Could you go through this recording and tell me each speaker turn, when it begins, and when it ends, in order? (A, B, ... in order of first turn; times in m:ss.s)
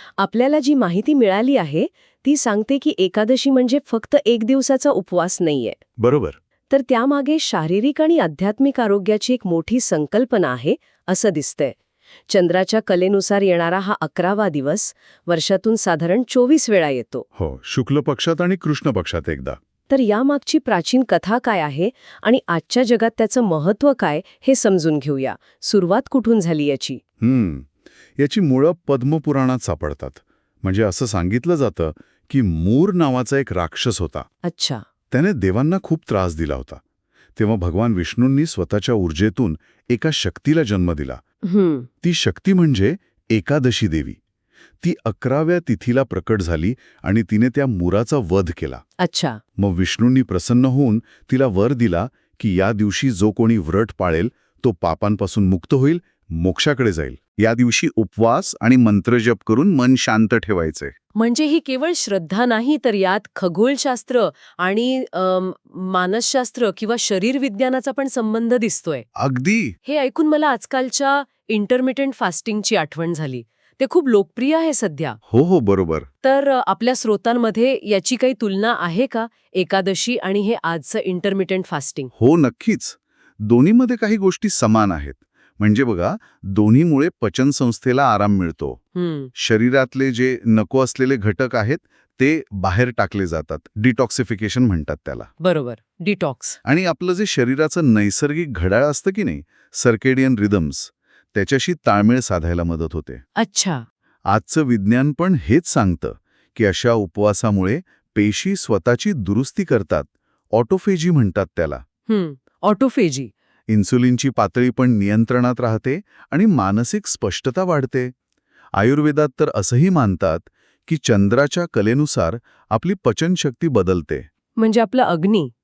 0:00.2-0:05.8 A
0:06.0-0:06.4 B
0:06.7-0:11.8 A
0:12.3-0:17.2 A
0:17.4-0:19.6 B
0:19.9-0:27.0 A
0:27.2-0:34.3 B
0:34.4-0:34.8 A
0:35.1-0:36.8 B
0:37.4-0:41.2 B
0:41.5-0:41.9 A
0:42.0-0:44.2 B
0:44.8-0:48.8 B
0:49.0-0:49.4 A
0:49.6-1:01.0 B
1:01.2-1:09.1 A
1:09.2-1:09.8 B
1:09.9-1:15.2 A
1:15.3-1:16.1 B
1:16.2-1:22.1 A
1:22.2-1:28.8 B
1:29.0-1:29.3 A
1:29.4-1:35.3 B
1:35.4-1:36.6 A
1:36.6-1:43.2 B
1:43.4-1:43.8 A
1:44.3-1:51.8 B
1:52.1-1:53.3 A
1:53.7-1:58.1 B
1:58.8-2:04.3 B
2:04.6-2:05.5 A